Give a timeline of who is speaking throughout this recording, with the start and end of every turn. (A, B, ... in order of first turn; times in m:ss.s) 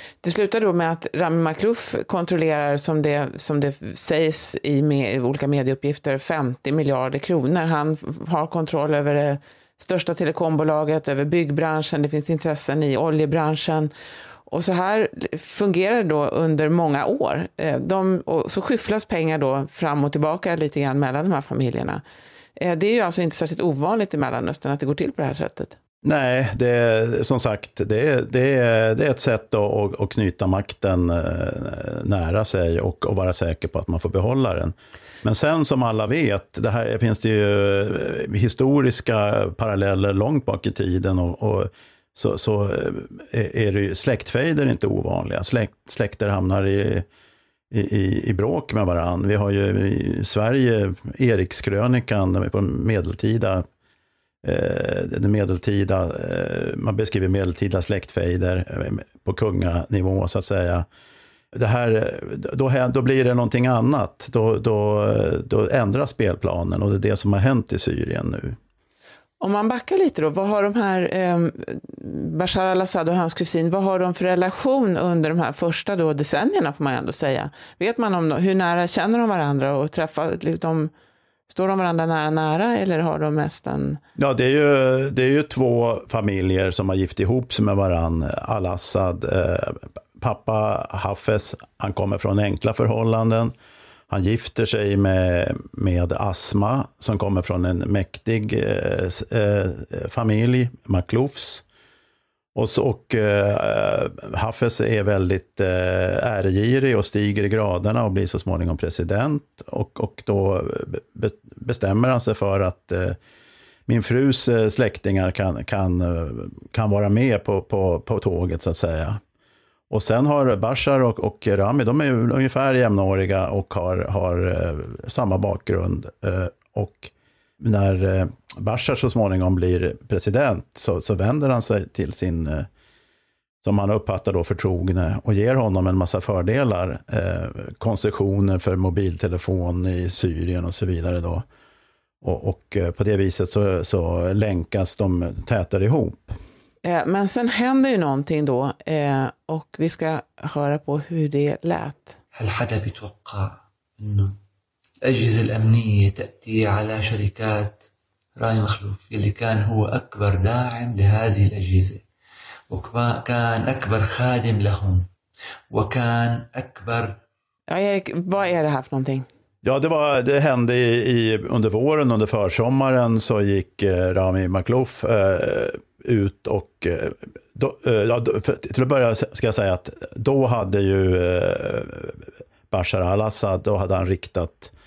0:00.2-0:13.9 A
0:14.5-0:22.0 A
0:22.6-0:25.8 A
0:26.0-0:47.1 B
0:47.7-0:53.6 B
0:54.4-1:00.9 B
1:01.5-1:08.6 B
1:09.4-1:20.9 A
1:21.5-1:24.0 A
1:24.2-1:33.5 B
1:34.1-1:41.6 B
1:42.6-1:53.2 B
1:53.9-1:59.2 B
1:59.9-2:12.7 B
2:13.6-2:21.4 B
2:22.2-2:26.4 B
2:26.8-2:32.2 A
2:32.4-2:34.4 C
2:35.0-2:37.8 C
2:38.4-2:42.0 C
2:42.7-2:45.1 C
2:45.7-2:47.2 C
2:47.7-2:49.3 A
2:49.6-3:04.7 B